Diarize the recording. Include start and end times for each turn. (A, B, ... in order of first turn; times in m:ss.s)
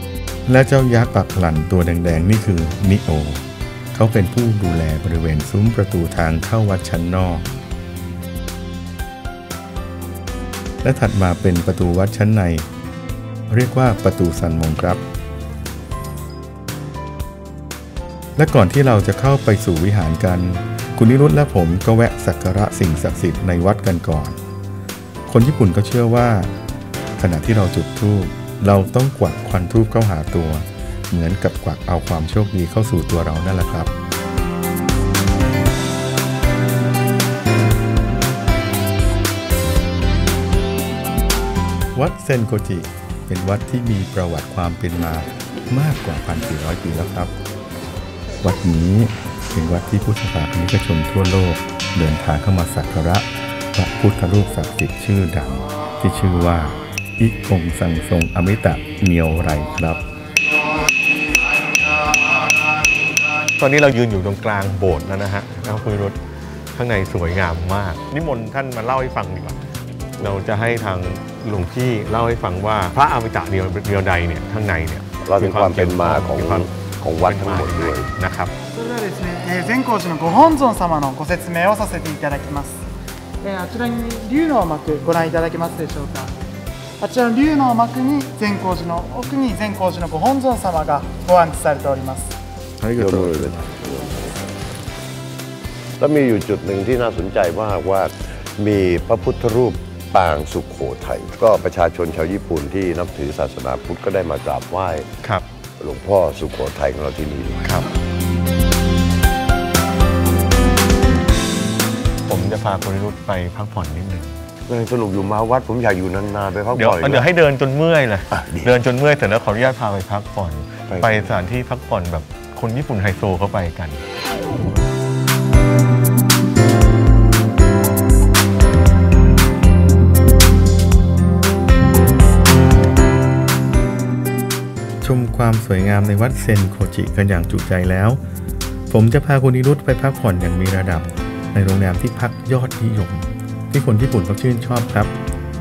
0:00.5-0:07.5 A
0:10.8-0:12.7 A
0:13.5-0:15.0 A
0:18.4-0:24.4 A
0:25.3-0:26.5 A
0:27.2-0:33.9 A
0:41.9-0:47.3 A
0:48.4-1:00.0 A
1:03.6-1:06.2 B
1:06.7-1:09.6 B
1:10.2-1:16.7 B
1:15.2-1:18.1 C
1:17.2-1:18.5 B
1:18.7-1:22.8 D
1:23.4-1:26.3 D
1:27.0-1:32.3 D
1:32.8-1:33.7 A
1:32.9-1:34.3 C
1:36.0-1:45.1 C
1:45.8-1:47.8 C
1:52.3-1:54.4 B
1:54.7-1:57.3 C
1:56.7-2:04.0 B
2:00.9-2:01.2 C
2:15.0-2:18.2 A
2:18.9-2:25.2 A